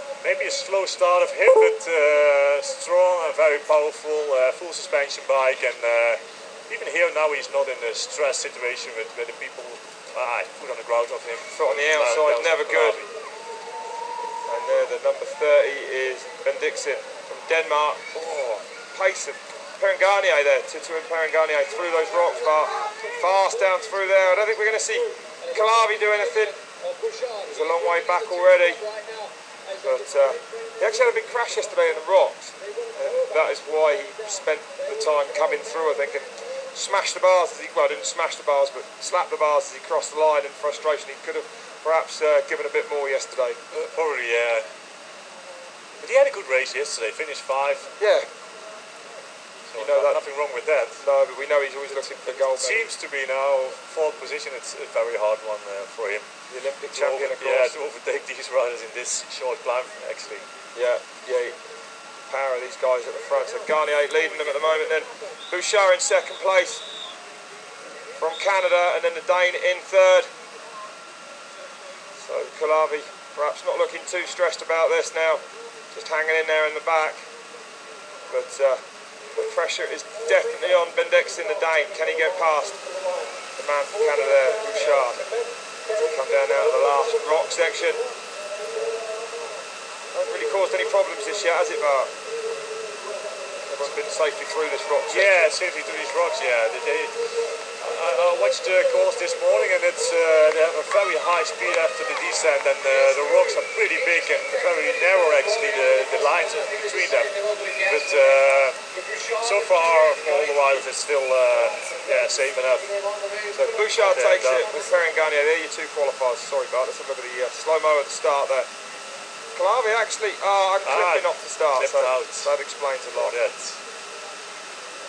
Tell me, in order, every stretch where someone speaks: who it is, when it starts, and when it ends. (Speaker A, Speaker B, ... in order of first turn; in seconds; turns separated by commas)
Speaker A: 0.2-13.1, Speaker B: 11.5-13.0, Speaker B: 14.5-26.6, Speaker B: 27.4-28.9, Speaker B: 29.8-43.6, Speaker A: 43.7-44.7, Speaker A: 46.0-47.9, Speaker B: 48.0-48.3, Speaker A: 49.7-51.0, Speaker B: 49.8-50.2, Speaker B: 51.0-52.9, Speaker A: 52.2-56.3, Speaker B: 56.5-57.8, Speaker A: 56.9-60.5, Speaker B: 60.7-61.6, Speaker B: 62.3-66.8, Speaker B: 68.2-70.3, Speaker B: 72.2-77.2, Speaker B: 78.3-78.8, Speaker B: 79.3-82.8, Speaker B: 83.5-85.2, Speaker B: 86.0-88.0, Speaker B: 90.1-92.1, Speaker B: 93.7-95.5, Speaker A: 95.1-108.8, Speaker A: 109.3-112.9, Speaker B: 113.5-118.7, Speaker A: 113.9-114.7, Speaker B: 119.5-123.4, Speaker A: 120.8-122.5, Speaker A: 123.1-123.8